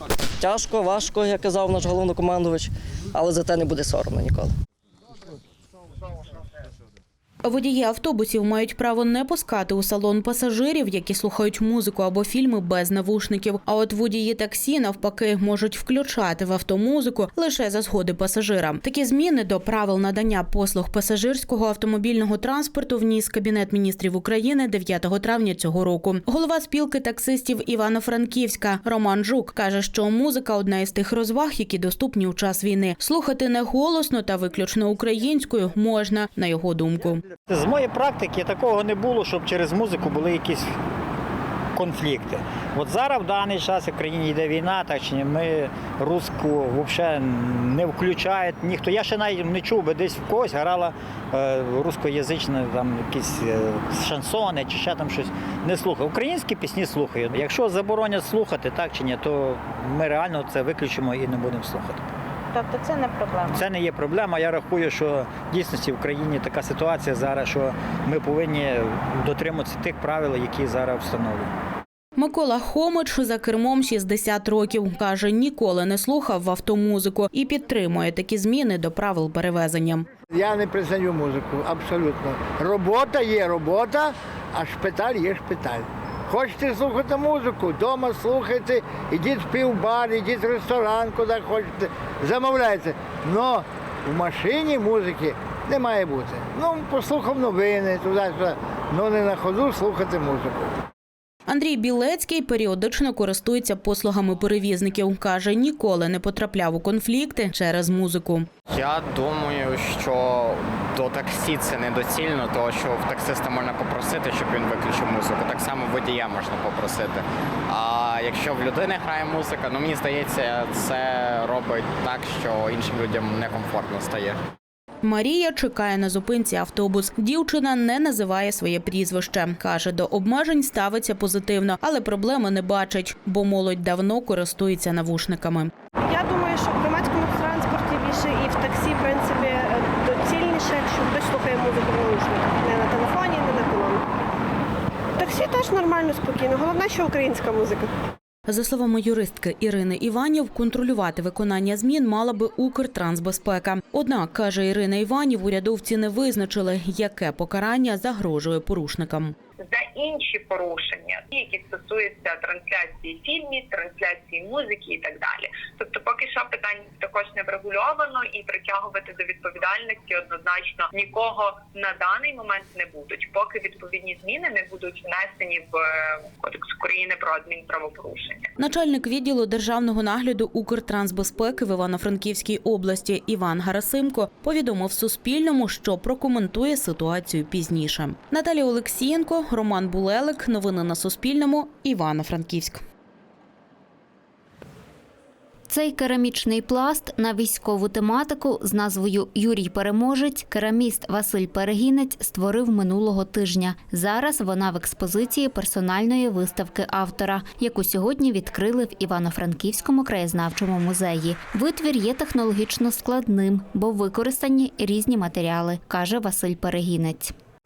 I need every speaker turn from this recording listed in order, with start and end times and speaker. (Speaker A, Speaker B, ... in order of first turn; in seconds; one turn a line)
Speaker A: 0.4-4.5
Speaker B: 7.4-37.2
Speaker C: 37.5-40.7
Speaker C: 41.8-62.1
Speaker C: 63.5-71.5
Speaker B: 72.2-80.1
Speaker D: 80.3-100.6
Speaker B: 101.5-108.5
Speaker E: 108.7-124.4
Speaker B: 125.0-135.7
Speaker F: 136.1-144.0
Speaker F: 145.2-147.9
Speaker B: 148.5-159.4
Speaker G: 159.7-175.8
Speaker G: 176.4-178.5
Speaker B: 178.6-192.8
Speaker H: 195.7-217.3